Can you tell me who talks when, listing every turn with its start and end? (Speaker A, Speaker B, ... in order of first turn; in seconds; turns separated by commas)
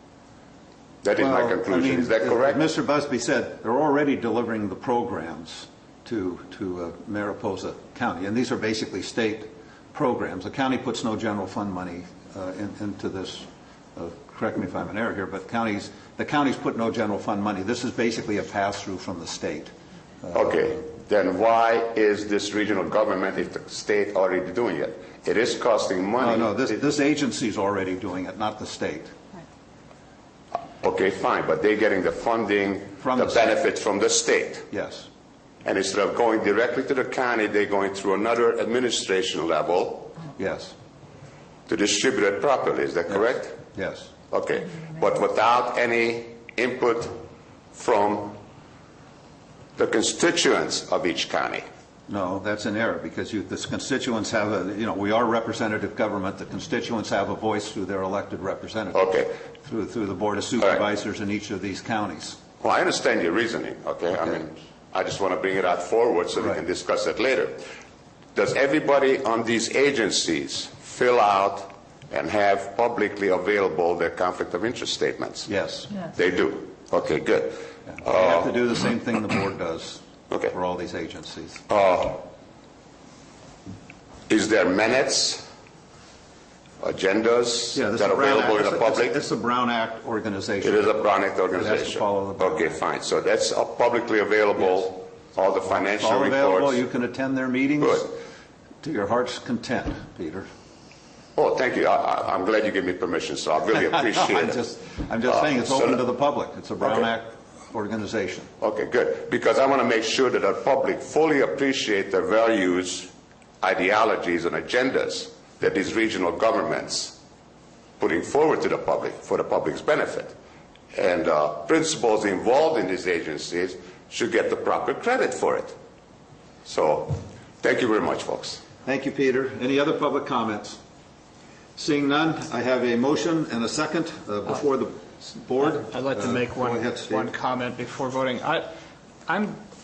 Speaker A: 1.0-2.6, Speaker B: 1.2-19.7, Speaker B: 20.2-20.6, Speaker A: 20.3-26.7, Speaker B: 26.2-29.1, Speaker A: 30.8-34.7, Speaker B: 33.0-33.6, Speaker B: 34.7-35.1, Speaker A: 35.6-40.2, Speaker B: 40.4-40.7, Speaker A: 41.7-43.6, Speaker B: 43.1-44.1, Speaker A: 44.3-47.2, Speaker A: 47.7-48.4, Speaker A: 49.8-51.6, Speaker B: 52.1-59.0, Speaker A: 58.9-59.3, Speaker B: 59.6-62.4, Speaker A: 62.6-67.6, Speaker A: 68.3-75.5, Speaker B: 75.5-76.0, Speaker A: 76.0-78.5, Speaker B: 77.9-81.6, Speaker A: 81.7-82.3, Speaker A: 84.3-85.5, Speaker A: 86.8-89.2, Speaker B: 87.7-90.9, Speaker A: 90.6-96.8, Speaker B: 91.5-92.8, Speaker B: 95.7-98.2, Speaker B: 98.8-100.5, Speaker A: 101.4-104.6, Speaker B: 103.9-108.5, Speaker A: 105.3-106.0, Speaker A: 108.6-113.1, Speaker A: 113.6-117.2, Speaker A: 118.0-120.3, Speaker A: 120.9-125.8, Speaker A: 126.7-128.6, Speaker B: 128.8-130.8, Speaker B: 131.8-137.3, Speaker C: 135.7-138.7, Speaker C: 139.3-139.6